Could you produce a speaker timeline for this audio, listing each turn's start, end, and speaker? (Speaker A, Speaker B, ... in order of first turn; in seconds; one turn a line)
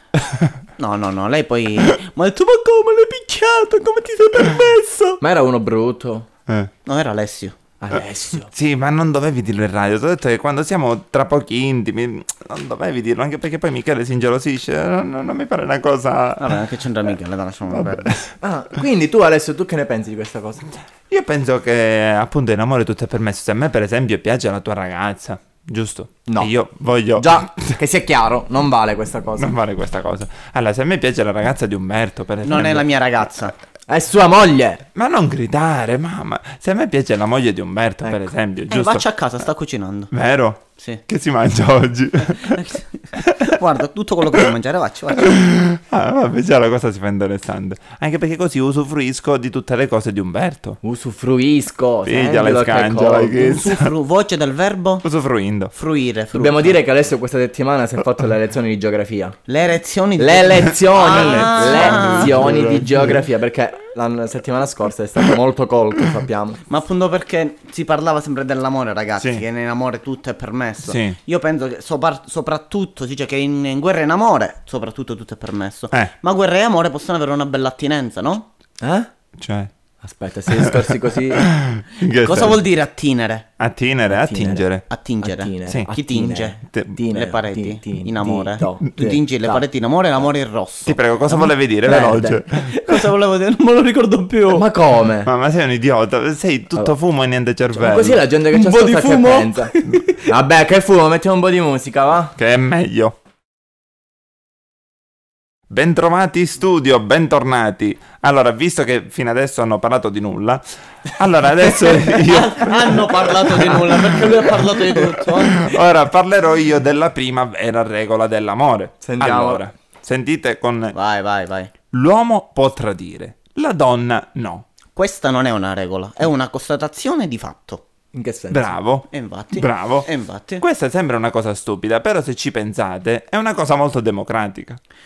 Speaker A: 0.1-0.6
Speaker B: 0.8-5.2
Speaker C: 5.2-6.3
Speaker B: 6.8-7.6
Speaker C: 7.8-8.5
Speaker A: 8.5-16.6
Speaker B: 16.4-18.1
Speaker A: 17.7-18.3
Speaker C: 18.4-20.6
Speaker A: 21.1-27.8
Speaker C: 26.2-26.5
Speaker C: 27.2-29.5
Speaker A: 29.4-32.9
Speaker B: 32.4-33.5
Speaker C: 33.9-34.8
Speaker A: 34.9-39.0
Speaker C: 38.0-38.3
Speaker B: 38.7-40.1
Speaker A: 40.1-42.6
Speaker B: 40.8-41.0
Speaker B: 42.3-45.4
Speaker A: 43.2-43.6
Speaker A: 45.2-50.8
Speaker C: 50.8-53.5
Speaker A: 52.0-53.9
Speaker B: 53.4-55.0
Speaker A: 55.0-55.7
Speaker B: 55.7-56.8
Speaker C: 56.3-59.4
Speaker B: 59.5-62.8
Speaker C: 60.2-66.6
Speaker A: 60.9-63.2
Speaker B: 66.7-78.5
Speaker A: 70.8-71.2
Speaker C: 78.8-79.1
Speaker A: 79.4-79.7
Speaker C: 80.0-81.5
Speaker A: 80.5-82.6
Speaker B: 82.2-83.5
Speaker A: 83.6-84.8
Speaker C: 84.1-84.7
Speaker B: 84.9-86.6
Speaker C: 85.2-89.6
Speaker A: 86.7-87.0
Speaker B: 87.1-91.0
Speaker A: 90.8-92.7
Speaker C: 91.3-92.4
Speaker B: 92.5-94.6
Speaker C: 94.5-95.3
Speaker A: 95.2-98.2
Speaker C: 97.7-99.7
Speaker B: 98.5-100.3
Speaker C: 100.2-102.3
Speaker A: 102.4-103.2
Speaker A: 105.7-114.6
Speaker B: 111.8-115.8
Speaker A: 115.2-120.9
Speaker C: 119.0-119.6
Speaker B: 120.9-121.7
Speaker A: 121.9-124.7
Speaker B: 125.0-127.8
Speaker C: 128.1-128.7
Speaker A: 128.5-130.1
Speaker B: 129.1-130.6
Speaker A: 130.6-134.8